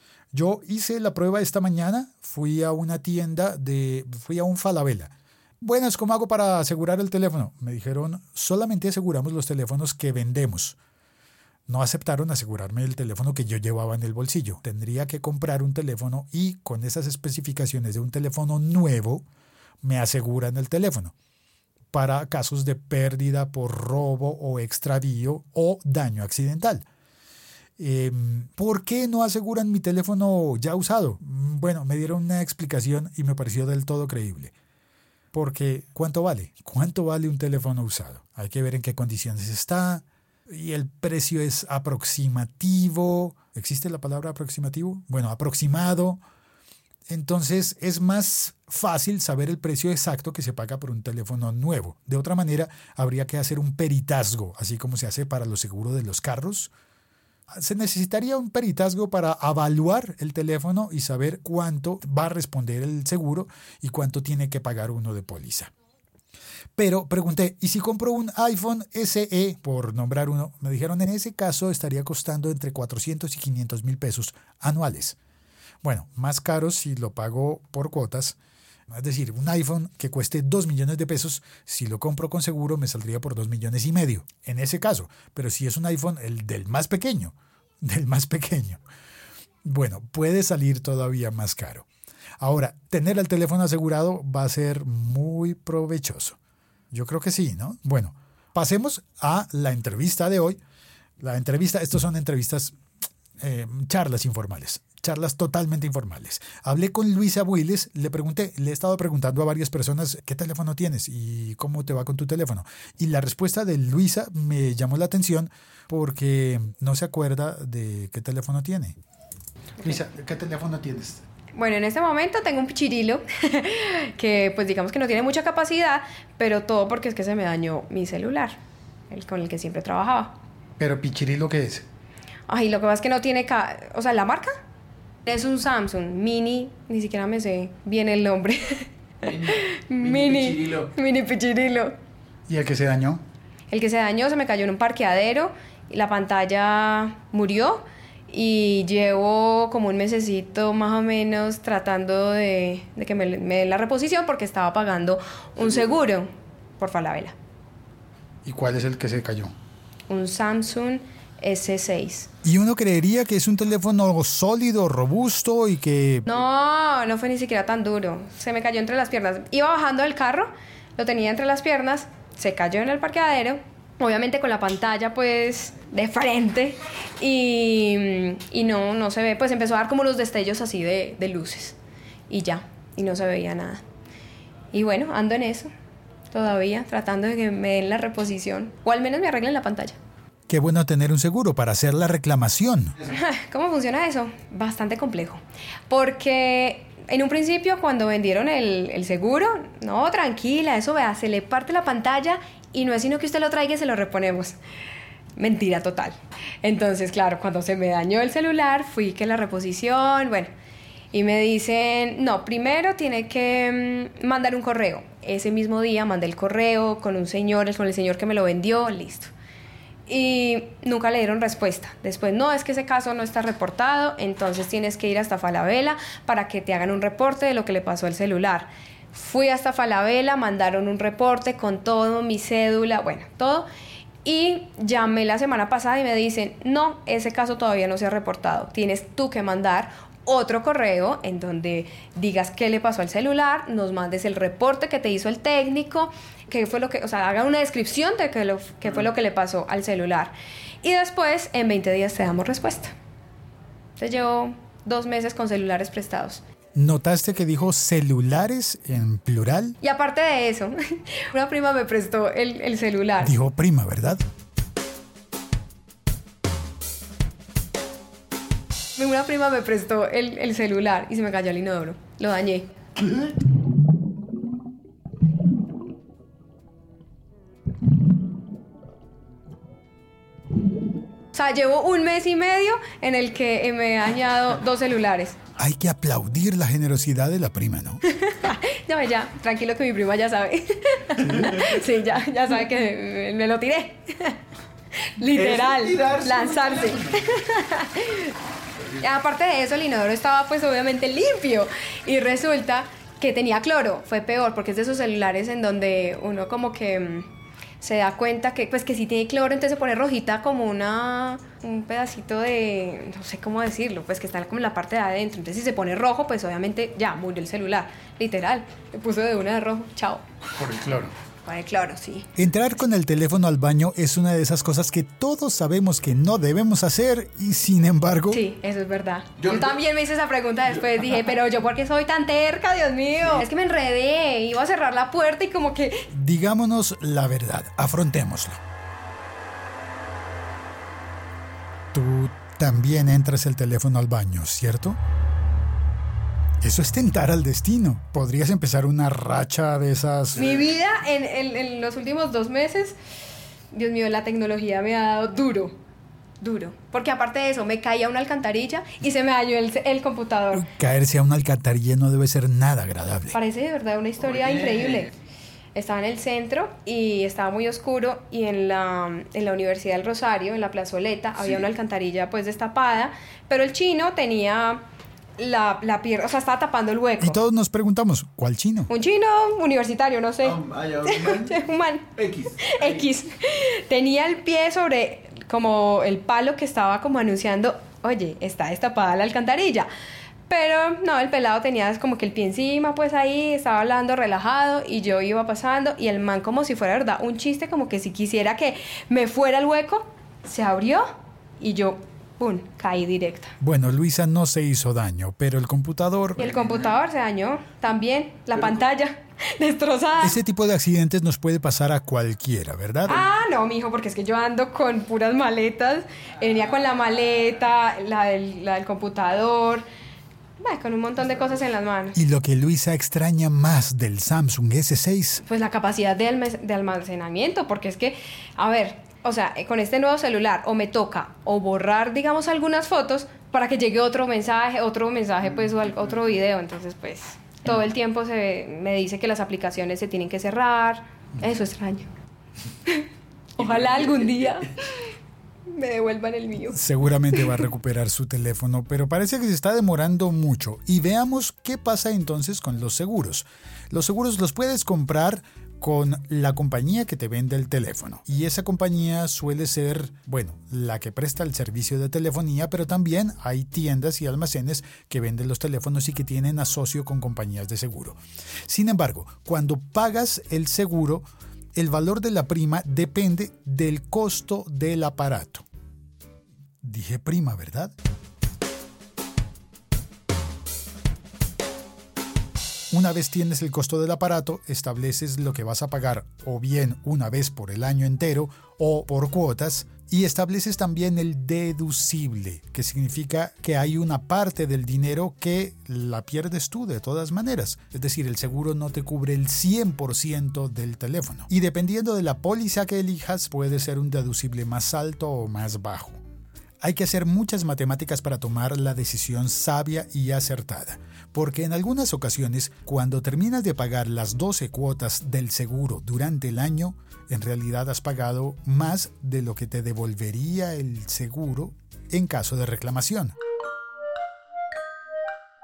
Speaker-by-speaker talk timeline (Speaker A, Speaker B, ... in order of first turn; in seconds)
Speaker A: 0.3-10.8, 11.7-19.3, 19.8-21.1, 21.9-26.9, 27.8-34.5, 35.3-46.2, 47.1-56.7, 57.5-65.7, 66.8-75.2, 75.8-78.4, 78.9-88.8, 89.6-91.9, 92.4-96.4, 96.9-100.6, 101.2-102.8, 103.4-119.0, 119.8-121.2, 130.8-131.8, 142.5-143.2, 158.4-159.5, 162.4-166.3, 190.5-193.0, 256.8-259.8, 263.2-264.2, 285.6-288.0, 320.6-321.1, 322.4-328.4, 336.1-338.6, 341.9-345.0, 346.6-350.5, 360.5-363.4, 377.2-378.9, 403.6-406.5, 410.2-413.3, 422.1-425.4, 446.7-475.6, 476.8-477.9, 482.9-506.2, 506.8-523.4
Speaker B: 121.5-128.6, 129.1-130.3, 132.5-134.6, 135.3-141.9, 143.7-157.4, 160.1-162.3, 166.3-181.8, 182.3-183.8, 184.7-185.7, 186.3-190.0, 193.1-204.6, 205.4-210.5, 211.1-219.3, 220.1-233.7, 234.2-252.9, 254.0-256.4, 259.8-263.3, 269.0-272.7, 281.3-285.4, 288.1-294.4, 295.0-298.3, 298.9-307.3, 307.8-320.2, 321.4-322.3, 328.3-336.1, 350.4-353.0, 353.7-355.8, 356.4-360.7, 363.4-365.1, 365.8-374.8, 375.4-377.4, 378.9-389.9, 390.5-403.6, 406.4-410.4, 413.1-419.9, 420.6-422.2, 425.5-442.1, 443.6-445.1, 445.7-447.6